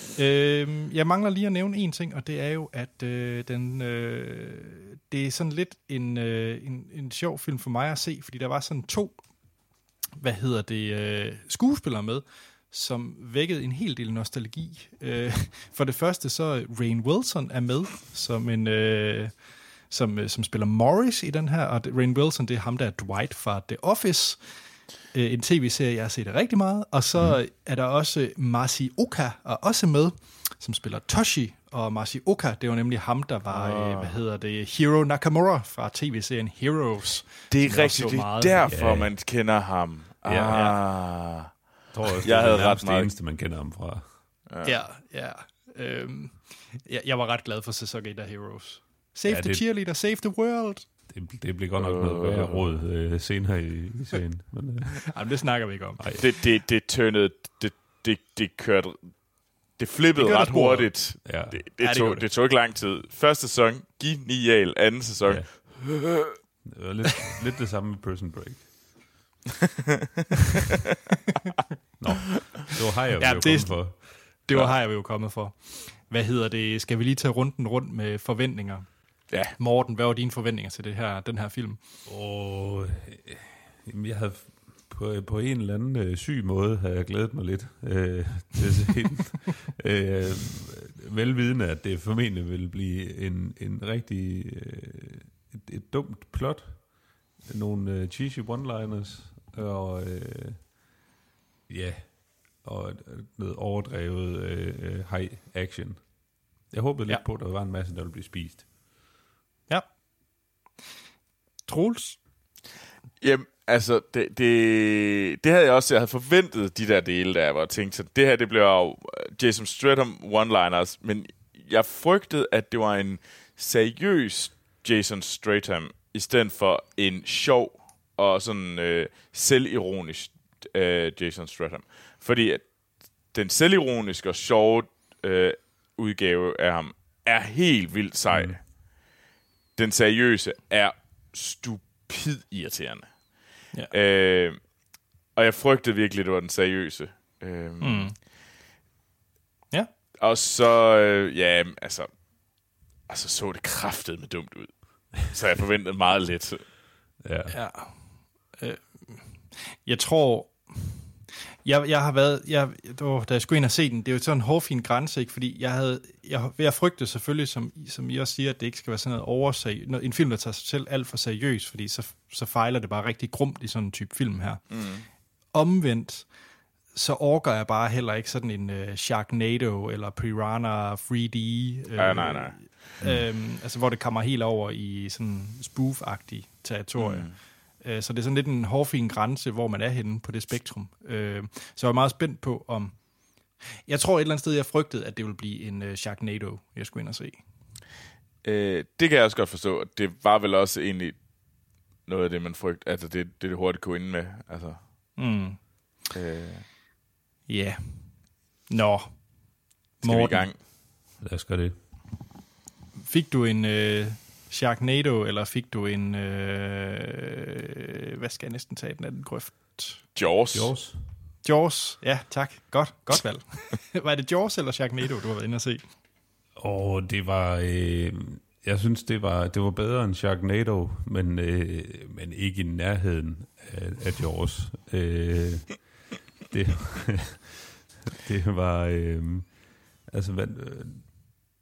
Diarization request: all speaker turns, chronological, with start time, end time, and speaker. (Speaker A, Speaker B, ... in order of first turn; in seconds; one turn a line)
Speaker A: 0.2-9.5
Speaker A: 10.2-38.6
Speaker B: 33.5-34.2
Speaker B: 37.5-41.6
Speaker C: 38.7-39.1
Speaker C: 40.2-40.7
Speaker A: 40.5-40.8
Speaker C: 41.9-44.1
Speaker B: 42.2-43.1
Speaker B: 44.5-44.8
Speaker A: 44.6-50.9
Speaker C: 49.3-49.7
Speaker C: 51.1-55.4
Speaker B: 51.8-52.8
Speaker A: 55.1-56.0
Speaker C: 56.0-56.3
Speaker B: 56.2-66.4
Speaker A: 60.2-62.3
Speaker C: 61.2-61.6
Speaker C: 65.2-68.7
Speaker C: 72.0-74.3
Speaker A: 73.2-78.9
Speaker B: 79.3-79.6
Speaker A: 79.6-81.8
Speaker C: 82.1-100.7
Speaker C: 101.7-108.7
Speaker A: 109.7-110.0
Speaker A: 111.7-112.2
Speaker B: 113.2-138.6
Speaker C: 138.3-138.6
Speaker B: 139.8-148.2
Speaker A: 147.8-148.2
Speaker B: 150.2-156.7
Speaker C: 157.2-157.6
Speaker A: 157.5-161.1
Speaker A: 161.6-174.8
Speaker B: 174.7-175.1
Speaker A: 175.5-176.3
Speaker A: 176.9-193.1
Speaker B: 182.0-182.8
Speaker B: 187.0-187.4
Speaker A: 193.9-197.4
Speaker B: 198.4-201.3
Speaker B: 202.1-204.8
Speaker A: 205.2-205.8
Speaker B: 206.1-206.7
Speaker A: 207.5-209.5
Speaker A: 210.0-210.5
Speaker B: 210.0-210.6
Speaker C: 211.2-211.8
Speaker A: 213.0-220.0
Speaker B: 220.2-220.7
Speaker C: 220.5-221.0
Speaker A: 221.4-225.8
Speaker C: 226.6-237.6
Speaker C: 238.2-241.4